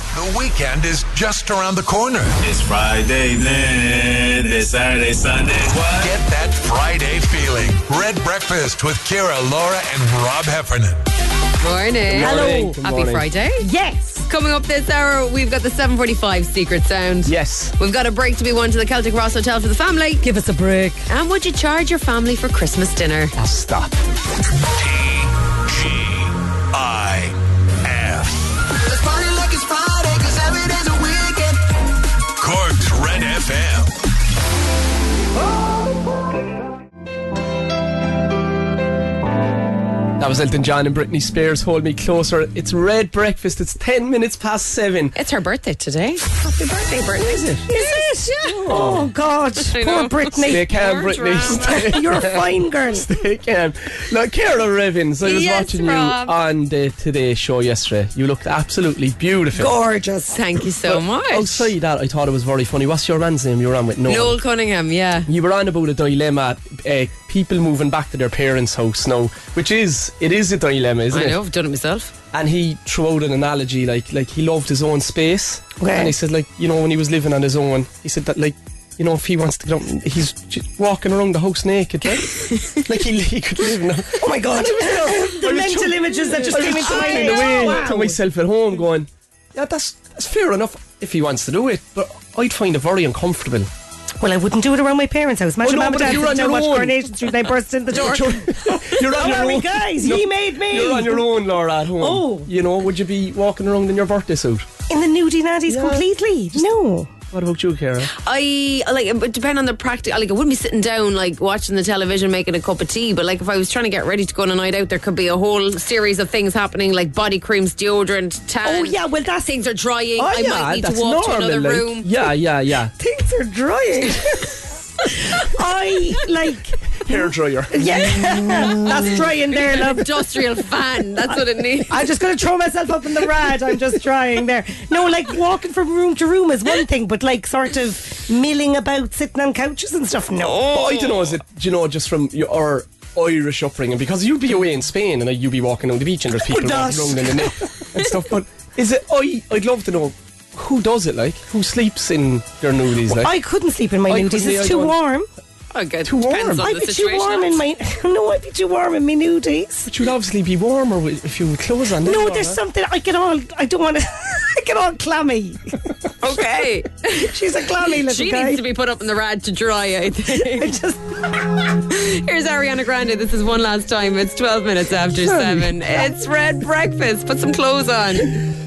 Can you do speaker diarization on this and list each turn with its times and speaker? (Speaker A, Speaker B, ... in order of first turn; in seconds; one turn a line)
Speaker A: 0.1-2.4
Speaker B: 2.4-6.1
Speaker A: 5.7-11.0
Speaker C: 11.6-13.6
Speaker D: 12.1-13.2
Speaker E: 12.1-12.8
Speaker E: 13.6-14.3
Speaker C: 14.3-20.3
Speaker D: 17.3-17.7
Speaker E: 20.2-21.0
Speaker D: 20.5-20.8
Speaker C: 21.1-23.3
Speaker D: 23.4-23.9
Speaker A: 24.7-28.6
Speaker F: 28.7-31.6
Speaker A: 32.4-33.9
Speaker D: 40.2-45.1
Speaker C: 45.1-48.8
Speaker D: 47.2-47.7
Speaker E: 47.7-50.6
Speaker D: 48.7-49.1
Speaker C: 49.6-52.0
Speaker D: 50.5-59.8
Speaker E: 51.5-53.1
Speaker C: 55.2-56.4
Speaker E: 59.6-60.4
Speaker C: 60.3-61.7
Speaker D: 60.9-64.4
Speaker C: 64.1-65.3
Speaker D: 65.3-71.4
Speaker C: 71.1-72.1
Speaker D: 72.3-93.7
Speaker E: 75.8-76.1
Speaker E: 84.2-88.2
Speaker E: 94.2-101.3
Speaker D: 95.6-97.1
Speaker D: 97.9-104.7
Speaker E: 102.0-102.5
Speaker E: 104.9-107.1
Speaker D: 105.7-106.6
Speaker D: 107.3-108.1
Speaker C: 108.1-122.1
Speaker E: 118.6-119.5
Speaker E: 120.2-120.6
Speaker D: 120.3-122.9
Speaker E: 123.0-130.3
Speaker D: 127.0-127.8
Speaker C: 129.6-132.0
Speaker E: 131.9-140.7
Speaker C: 140.4-141.2
Speaker D: 140.7-153.3
Speaker E: 146.4-147.7
Speaker E: 153.1-155.3
Speaker D: 154.1-154.9
Speaker C: 155.7-157.6
Speaker D: 156.1-156.7
Speaker E: 156.6-159.9
Speaker D: 159.9-162.6
Speaker E: 162.0-165.8
Speaker C: 166.2-167.3
Speaker E: 167.1-168.6
Speaker C: 167.8-170.7
Speaker E: 170.3-171.4
Speaker C: 171.9-178.4
Speaker D: 175.2-175.8